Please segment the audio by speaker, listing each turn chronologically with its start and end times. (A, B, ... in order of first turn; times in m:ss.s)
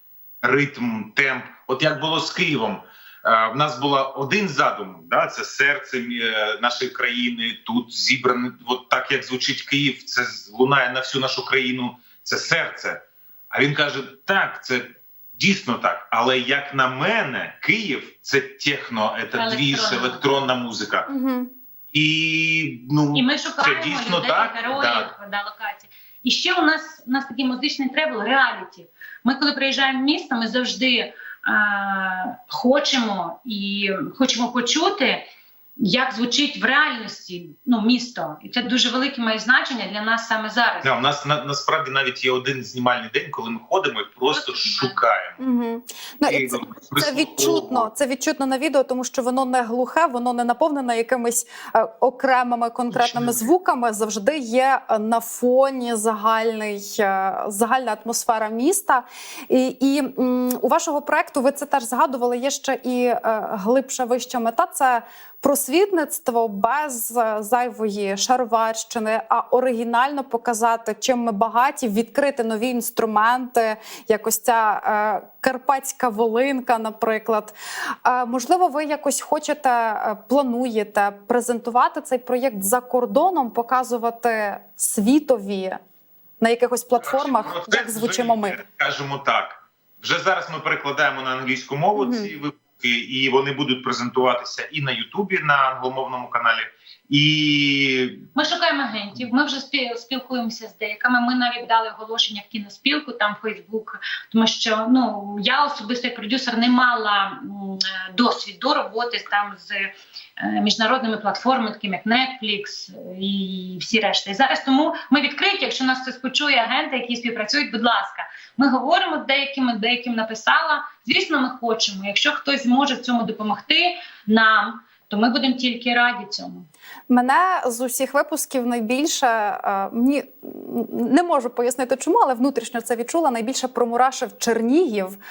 0:00.4-0:13.0 A
0:13.5-0:21.1 A
0:19.4-0:20.5 B
0:21.1-0:21.5 C
0:21.9-0:25.1 A
0:23.1-0:35.3 B
0:35.8-0:40.9 B
0:40.8-0:45.4 A
0:44.3-0:45.0 B
0:45.4-1:17.5 C
0:46.3-0:47.9 A
0:52.9-0:53.5 A
1:18.0-1:25.8 C
1:26.4-1:28.6 C
1:27.0-1:38.2 A
1:32.0-1:32.3 C
1:38.4-2:06.7 B
2:07.1-2:15.2 C